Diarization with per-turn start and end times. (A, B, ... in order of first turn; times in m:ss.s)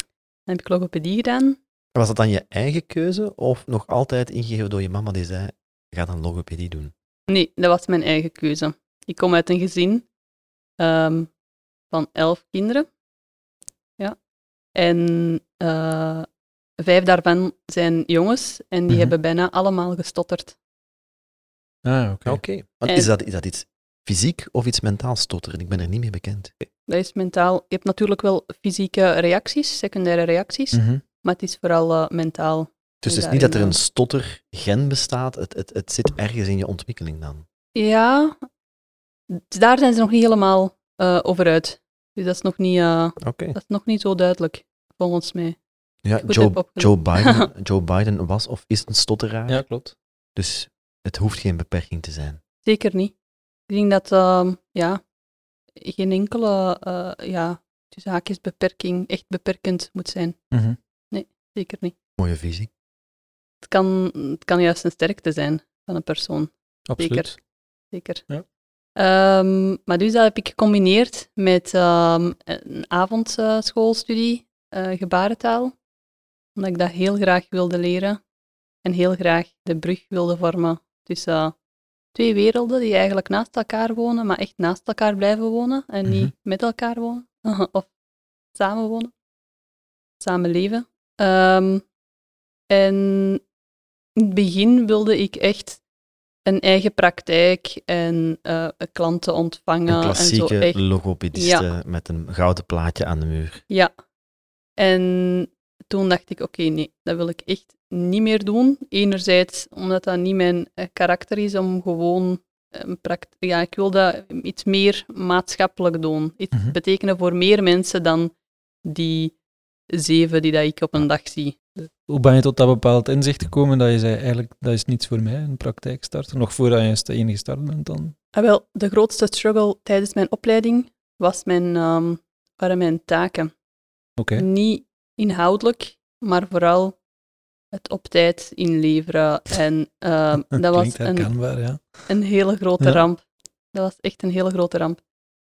0:00.5-0:01.6 A
0:01.9-0:06.9 B
0:07.3-0:10.0 A
0:10.8-0:11.3 A
0:11.9-0:12.9 A
0:14.7-0:16.3 A
0:16.8-0:20.6 A
0:21.8-0:22.4 C
0:22.2-0:26.5 B
0:26.9-0:33.8 A
0:30.7-0:31.0 C
0:33.0-0:37.4 B
0:37.7-0:38.5 A
0:39.3-0:45.6 A
0:43.2-0:43.6 B
0:46.0-0:49.8 B
0:46.2-0:47.4 A
0:49.5-0:49.9 C
0:50.4-0:52.4 B
0:52.6-0:53.1 A
0:53.7-0:55.0 A
0:55.8-1:00.5 A
1:00.5-1:00.8 C
1:01.1-1:02.0 A
1:02.2-1:02.7 B
1:03.6-1:08.2 A
1:06.9-1:07.4 C
1:09.0-1:15.8 A
1:16.6-1:18.2 A
1:18.8-1:21.6 A
1:22.1-1:27.9 A
1:28.5-1:29.1 A
1:30.2-1:31.8 A
1:32.7-1:33.4 A
1:34.2-1:35.8 A
1:36.4-1:40.8 A
1:39.9-1:43.6 B
1:41.3-1:41.6 A
1:44.8-1:58.3 A
1:58.8-1:59.4 A
1:59.9-2:01.6 A
2:02.0-2:08.1 C
2:08.3-2:13.5 A
2:14.2-2:14.4 C
2:14.4-2:17.0 A
2:17.7-2:21.4 A
2:20.5-2:22.1 C
2:22.0-2:23.2 A
2:23.7-2:25.0 A